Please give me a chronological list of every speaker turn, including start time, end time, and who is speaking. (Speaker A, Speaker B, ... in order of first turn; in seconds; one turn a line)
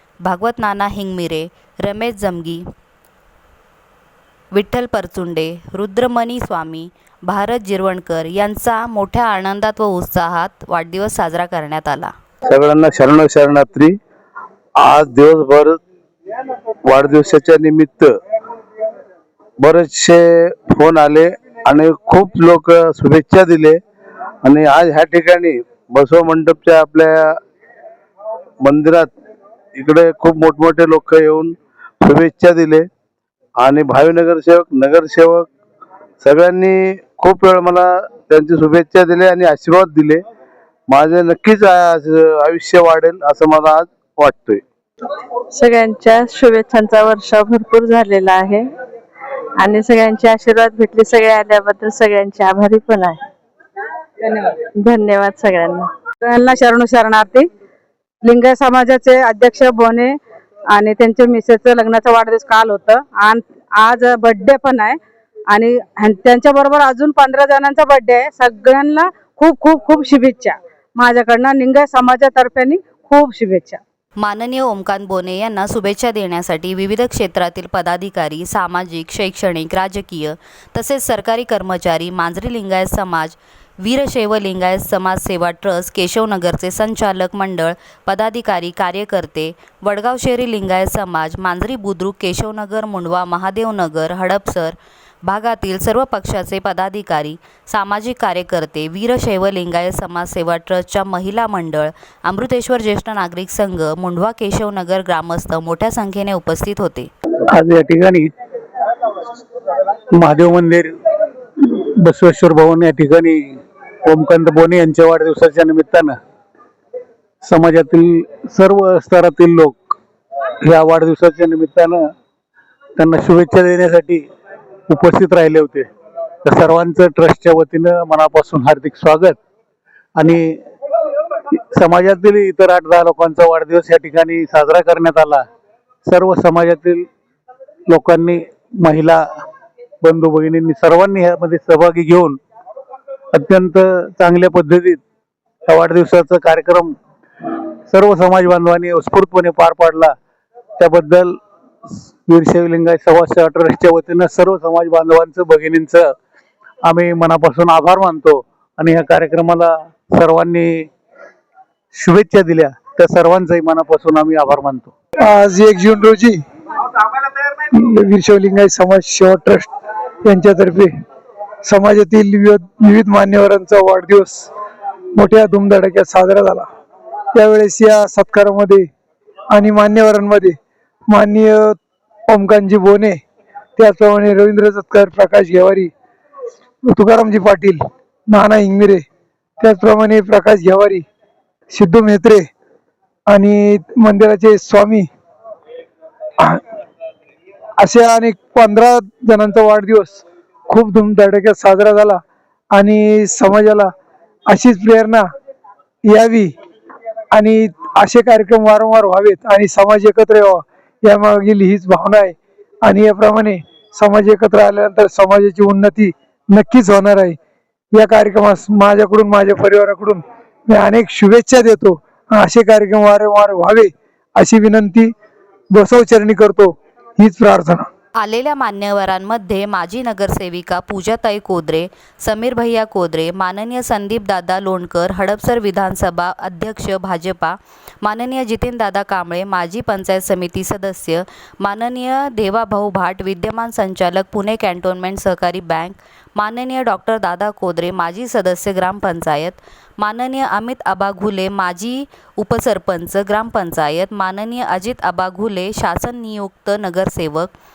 Speaker A: 0.2-2.6
Speaker A: 4.5-12.1
Speaker B: 12.8-13.9
Speaker B: 14.9-15.8
Speaker B: 17.1-18.0
Speaker B: 19.8-20.1
Speaker B: 20.8-21.2
Speaker B: 23.2-23.8
Speaker B: 24.5-25.5
Speaker B: 26.0-27.0
Speaker B: 28.7-29.0
Speaker B: 30.0-31.4
Speaker B: 32.2-32.8
Speaker B: 33.7-35.4
Speaker B: 36.2-36.7
Speaker B: 37.2-37.8
Speaker B: 38.3-40.2
Speaker B: 41.0-44.6
Speaker C: 45.6-48.6
Speaker D: 49.6-49.9
Speaker C: 49.8-53.1
Speaker D: 54.2-54.9
Speaker C: 54.9-55.8
Speaker D: 56.2-57.5
Speaker D: 58.2-60.2
Speaker D: 60.7-65.0
Speaker D: 65.5-73.8
Speaker A: 74.2-107.1
Speaker E: 107.5-108.3
Speaker E: 110.2-111.0
Speaker E: 112.0-116.2
Speaker E: 117.4-120.0
Speaker E: 120.6-122.0
Speaker E: 123.0-124.2
Speaker E: 124.9-125.9
Speaker E: 126.5-129.4
Speaker E: 130.2-130.6
Speaker E: 131.8-135.4
Speaker E: 136.1-137.1
Speaker E: 137.9-139.3
Speaker E: 140.0-142.4
Speaker E: 143.3-145.0
Speaker E: 145.7-147.0
Speaker E: 147.9-150.2
Speaker E: 150.8-151.4
Speaker E: 152.3-156.2
Speaker E: 156.9-160.9
Speaker E: 161.9-164.9
Speaker F: 165.2-166.4
Speaker F: 167.8-169.7
Speaker F: 170.2-170.9
Speaker F: 171.6-174.5
Speaker F: 175.2-176.7
Speaker F: 177.3-178.9
Speaker F: 179.5-180.6
Speaker F: 181.1-183.2
Speaker F: 183.8-185.9
Speaker F: 186.9-189.1
Speaker F: 189.6-191.1
Speaker F: 191.7-192.5
Speaker F: 193.3-195.1
Speaker F: 197.8-202.2
Speaker F: 202.7-203.9
Speaker F: 204.5-205.3
Speaker F: 206.1-206.6
Speaker F: 207.3-217.4
Speaker F: 217.9-225.1
Speaker F: 225.7-227.9
Speaker A: 228.2-257.5